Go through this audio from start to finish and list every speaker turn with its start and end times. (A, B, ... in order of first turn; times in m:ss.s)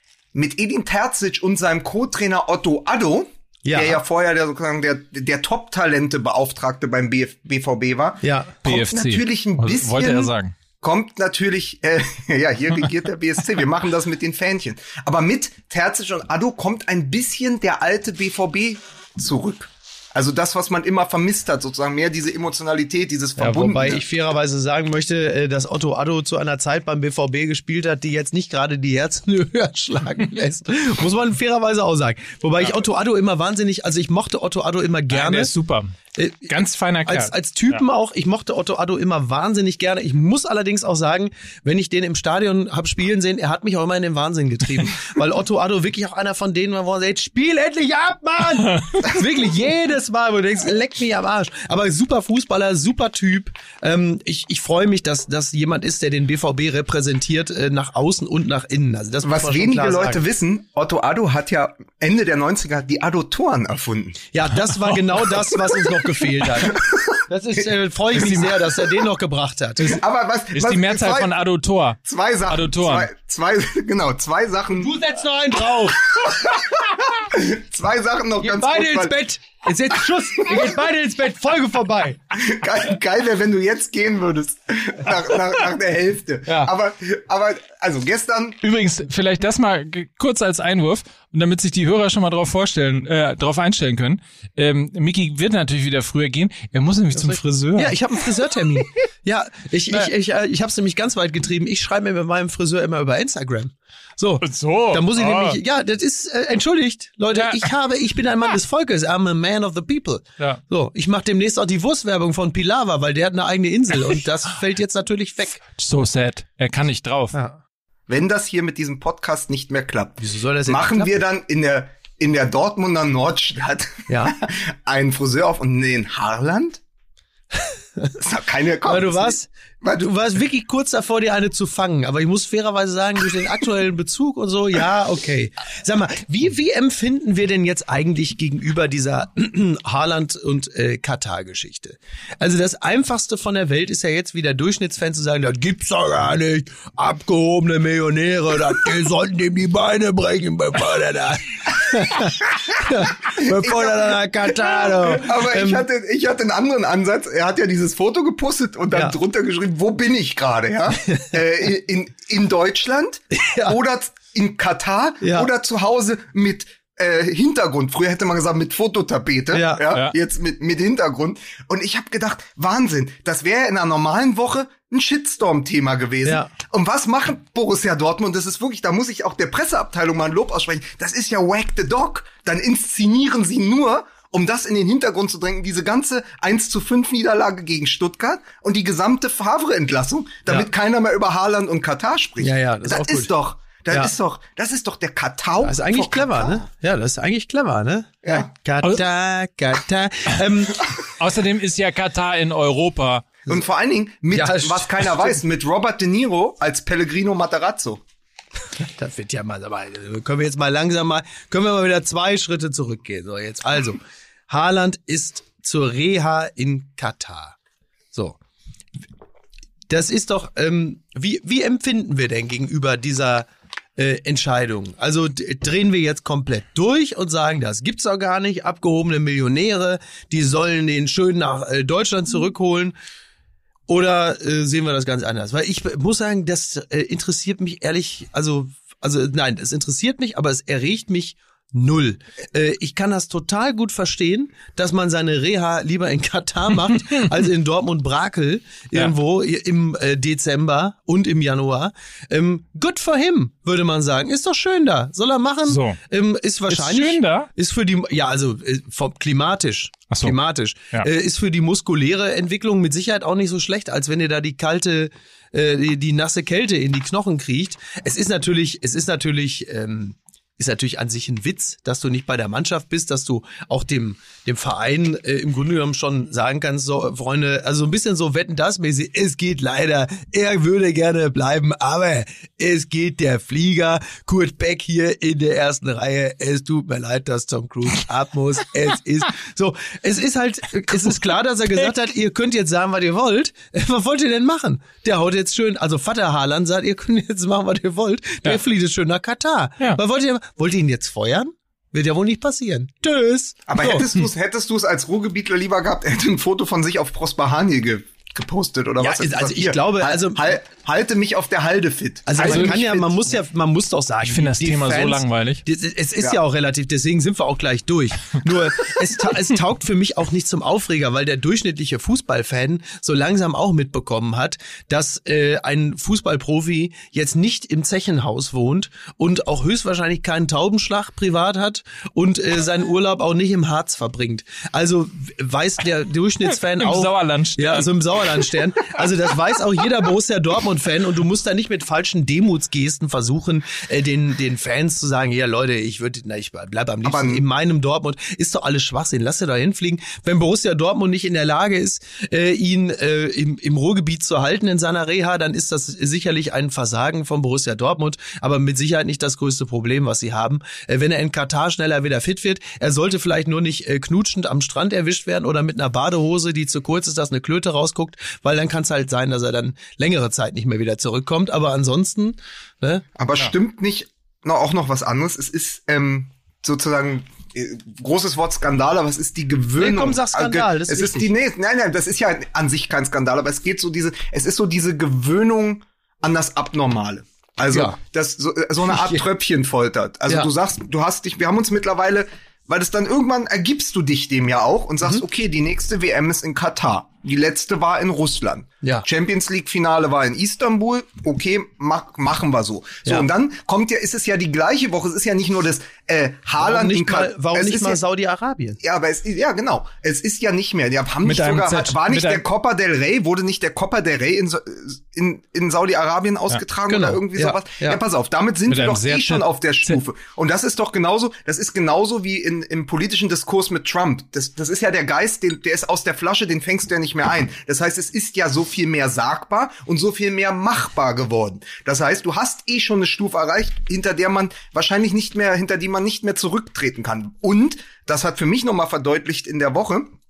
0:00.3-0:24.0 A
0:03.7-0:04.0 B
0:08.2-0:08.6 B
0:08.6-0:10.5 C
0:23.4-0:35.5 B
0:35.1-0:36.0 C
0:36.2-0:36.5 B
0:36.5-0:37.8 C
0:37.0-1:00.2 B
0:48.7-0:49.0 C
0:59.2-1:04.3 A
1:04.3-1:10.0 B
1:06.6-1:07.2 A
1:09.8-1:11.4 A
1:10.5-1:13.1 C
1:12.1-1:15.0 A
1:14.8-1:16.2 B
1:16.0-1:19.2 A
1:18.4-1:22.2 B
1:20.4-1:20.8 A
1:22.3-1:28.6 A
1:26.5-1:26.7 B
1:28.6-1:38.0 C
1:37.1-1:55.6 B
1:44.4-1:45.6 C
1:47.3-1:47.7 C
1:55.8-1:57.4 C
1:57.3-1:57.6 B
1:58.1-2:06.8 A
2:00.2-2:01.1 B
2:04.1-2:04.4 B
2:07.6-2:08.2 B
2:08.2-2:10.0 A
2:08.8-2:35.9 B
2:33.2-3:16.6 A
2:41.1-2:41.4 B
2:43.3-2:43.8 B
2:45.2-2:45.5 B
2:49.5-2:49.9 B
2:49.9-2:50.2 C
2:56.2-2:56.5 B
3:12.4-3:13.3 B
3:15.6-3:20.9 B
3:18.2-3:18.5 A
3:21.2-3:23.3 C
3:23.5-3:28.0 A
3:24.3-3:25.4 B
3:28.8-3:37.6 B
3:38.1-3:38.4 B
3:39.9-3:52.9 B
3:53.9-5:04.1 B
4:15.7-4:16.0 C
4:16.7-4:17.5 C
4:20.1-4:20.4 C
5:03.7-5:13.2 A
5:09.0-5:10.5 B
5:12.3-6:13.0 B
5:12.4-5:12.8 C
5:14.2-5:15.6 C
5:36.8-5:37.9 C
5:47.0-5:47.4 A
6:13.2-6:48.0 A
6:19.8-6:21.3 B
6:27.7-6:28.0 B
6:28.9-6:29.2 B
6:46.6-6:48.8 B
6:48.8-7:20.2 A
6:51.2-6:52.4 C
6:56.9-6:58.0 B
6:58.7-7:00.0 C